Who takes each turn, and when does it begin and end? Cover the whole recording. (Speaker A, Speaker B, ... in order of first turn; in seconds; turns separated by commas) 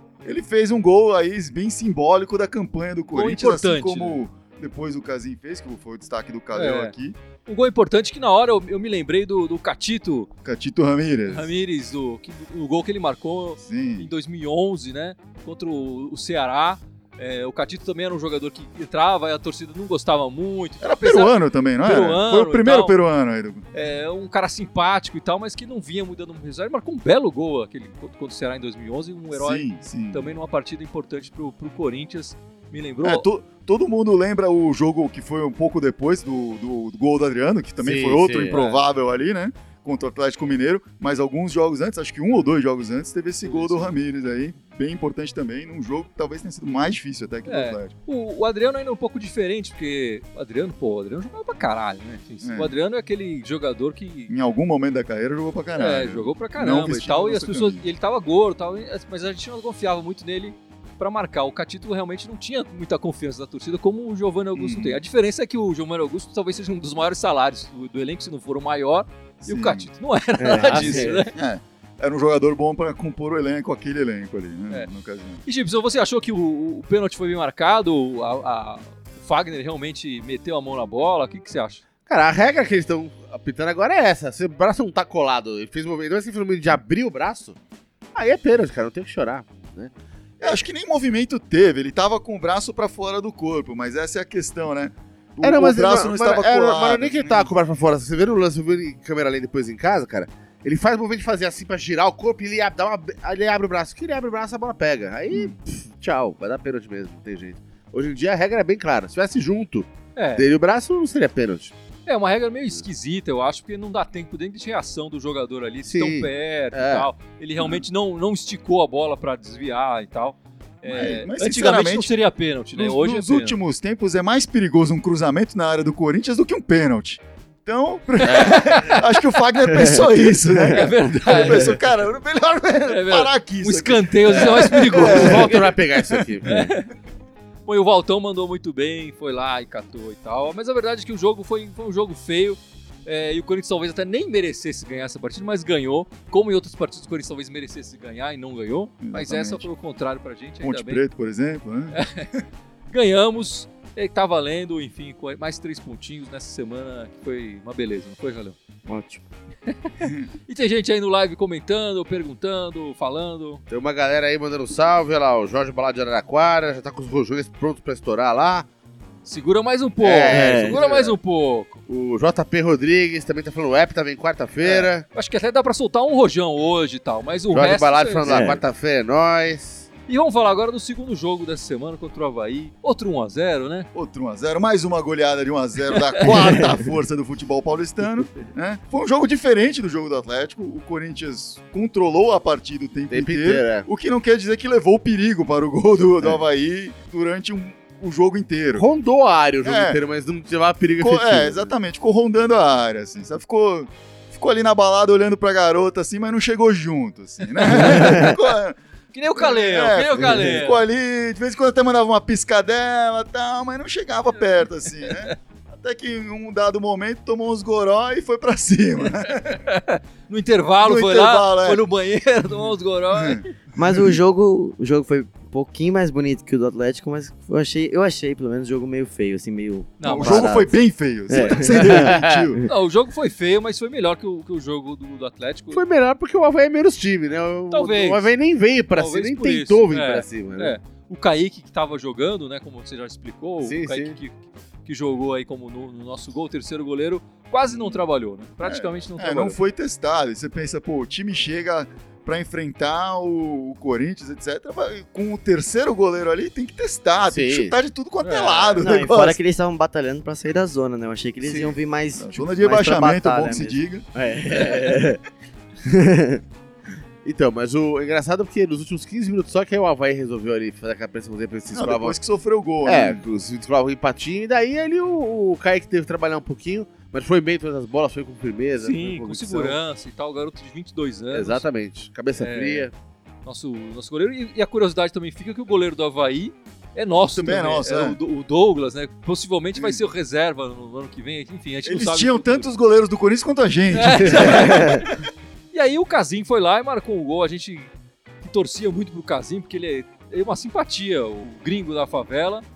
Speaker A: 0.2-7.2, Speaker B: 3.1-4.2, Speaker B: 6.5-6.9, Speaker B: 7.5-10.3, Speaker A: 10.4-11.5, Speaker B: 11.3-23.0, Speaker A: 13.6-14.1, Speaker A: 20.8-23.7, Speaker B: 23.7-33.3, Speaker A: 29.3-30.3, Speaker A: 33.0-47.9, Speaker C: 37.8-38.6, Speaker B: 38.5-38.8, Speaker B: 43.5-43.9, Speaker B: 47.5-54.3, Speaker A: 52.4-52.7, Speaker A: 54.3-57.9, Speaker B: 55.8-71.4, Speaker A: 64.5-65.0, Speaker A: 69.4-69.9, Speaker D: 70.4-71.2, Speaker C: 70.5-71.2, Speaker A: 71.3-75.4, Speaker B: 75.5-81.8, Speaker C: 82.1-87.6, Speaker C: 88.2-89.9, Speaker A: 90.4-97.5, Speaker C: 95.4-111.7, Speaker A: 105.3-105.6, Speaker B: 110.2-110.5, Speaker B: 112.1-123.6, Speaker C: 115.8-117.1, Speaker A: 117.6-117.8, Speaker A: 120.9-122.1, Speaker A: 122.8-136.6, Speaker B: 128.2-129.2, Speaker C: 128.2-128.6, Speaker D: 129.7-130.8, Speaker B: 130.7-131.8, Speaker D: 131.4-131.7, Speaker B: 132.9-135.7, Speaker C: 134.7-136.7, Speaker B: 136.4-136.9, Speaker B: 137.7-151.0, Speaker A: 149.0-149.7, Speaker A: 150.6-152.0, Speaker B: 151.9-152.3, Speaker B: 152.9-158.6, Speaker D: 158.9-159.2, Speaker B: 159.7-163.6, Speaker A: 160.0-160.3, Speaker C: 163.7-168.7, Speaker B: 169.2-171.8, Speaker C: 170.0-171.2, Speaker D: 170.3-170.8, Speaker C: 171.9-175.1, Speaker B: 174.6-178.4, Speaker C: 177.5-179.9, Speaker D: 178.2-178.6, Speaker B: 180.1-183.9, Speaker A: 183.9-198.9, Speaker B: 185.9-186.3, Speaker D: 186.3-186.8, Speaker C: 193.1-193.9, Speaker C: 198.8-201.7, Speaker A: 199.6-200.0, Speaker A: 201.0-208.8, Speaker B: 207.6-208.4, Speaker D: 207.8-208.3, Speaker B: 209.1-210.8, Speaker A: 209.4-219.7, Speaker B: 215.0-215.3, Speaker B: 219.2-223.5, Speaker A: 220.8-221.9, Speaker A: 222.6-224.2, Speaker D: 223.8-230.8, Speaker B: 230.0-230.6, Speaker A: 230.0-232.6, Speaker D: 231.3-232.7, Speaker B: 231.3-231.7, Speaker C: 231.7-232.5, Speaker B: 232.7-235.8, Speaker C: 235.7-240.8, Speaker B: 237.7-238.3, Speaker B: 238.9-249.6, Speaker C: 243.6-244.2, Speaker A: 247.7-248.1, Speaker A: 248.6-259.4, Speaker C: 257.3-257.8, Speaker B: 258.2-258.9, Speaker D: 258.8-265.2, Speaker C: 261.4-261.8, Speaker A: 262.2-264.1, Speaker C: 264.5-265.0, Speaker D: 265.8-266.4, Speaker C: 267.2-272.2, Speaker A: 271.7-273.2, Speaker C: 272.8-279.8, Speaker B: 278.8-281.6, Speaker C: 281.3-282.9, Speaker B: 282.4-282.9, Speaker B: 283.4-292.7, Speaker A: 287.3-288.2, Speaker A: 289.8-290.0, Speaker A: 291.9-295.1, Speaker B: 293.9-297.9, Speaker D: 294.7-295.0, Speaker B: 298.4-302.6